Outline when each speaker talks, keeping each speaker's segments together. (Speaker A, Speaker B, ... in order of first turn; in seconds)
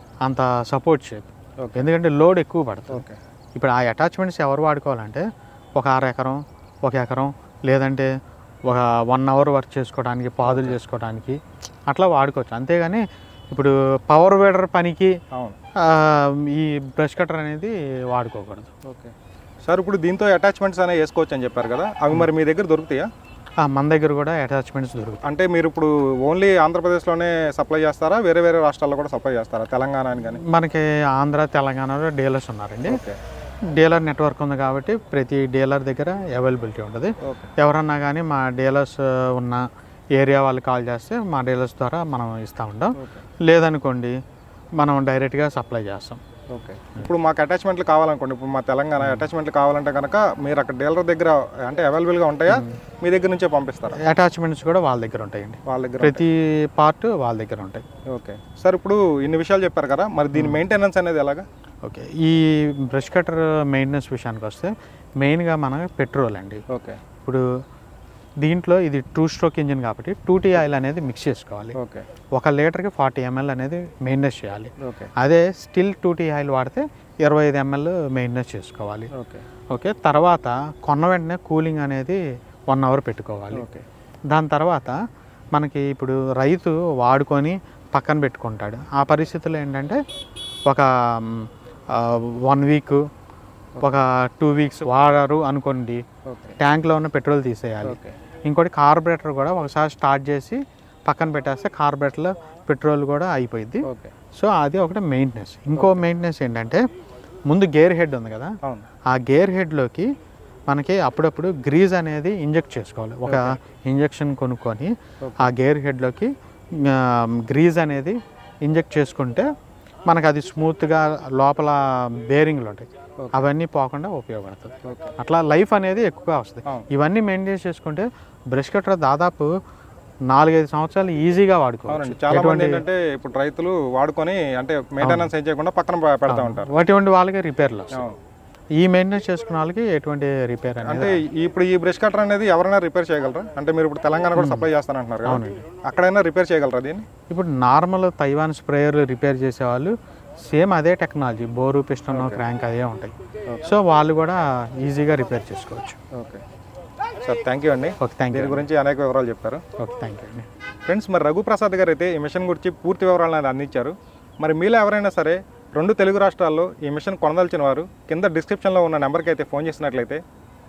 Speaker A: 0.2-5.2, 5.8-8.1, 8.7-15.1, 15.8-18.7, 23.6-25.2, 30.4-33.0, 33.7-44.1, 44.8-46.2, 49.0-49.3, 52.5-52.7, 54.0-57.8, 60.3-60.6, 61.8-66.6, 68.4-71.8, 72.3-79.1, 79.7-83.7, 84.3-85.0, 85.5-90.0, 90.7-93.0, 93.8-96.0, 96.6-106.8, 107.5-108.5, 109.1-110.1, 110.7-119.5, 120.1-129.5, 130.3-132.8, 135.0-135.3, 136.3-138.0, 138.8-141.2, 144.3-144.7, 145.2-145.6, 147.3-153.1, 153.6-156.0, 158.0-158.7, 159.8-160.5
Speaker B: 2.9-3.2, 10.4-10.8, 15.3-15.6, 18.9-19.1, 19.7-23.1, 25.2-30.4, 32.9-33.2, 37.2-37.5, 43.0-43.2, 46.5-54.0, 55.6-56.2, 58.1-61.4, 66.7-67.0, 71.7-72.0, 74.8-75.1, 79.1-79.4, 83.5-83.8, 96.3-96.5, 97.8-98.2, 103.8-104.1, 105.8-106.0, 113.2-113.5, 115.2-115.5, 123.2-123.4, 124.8-125.1, 131.9-136.7, 140.8-147.0, 152.1-152.4, 156.1-156.4, 157.2-159.6, 160.9-170.2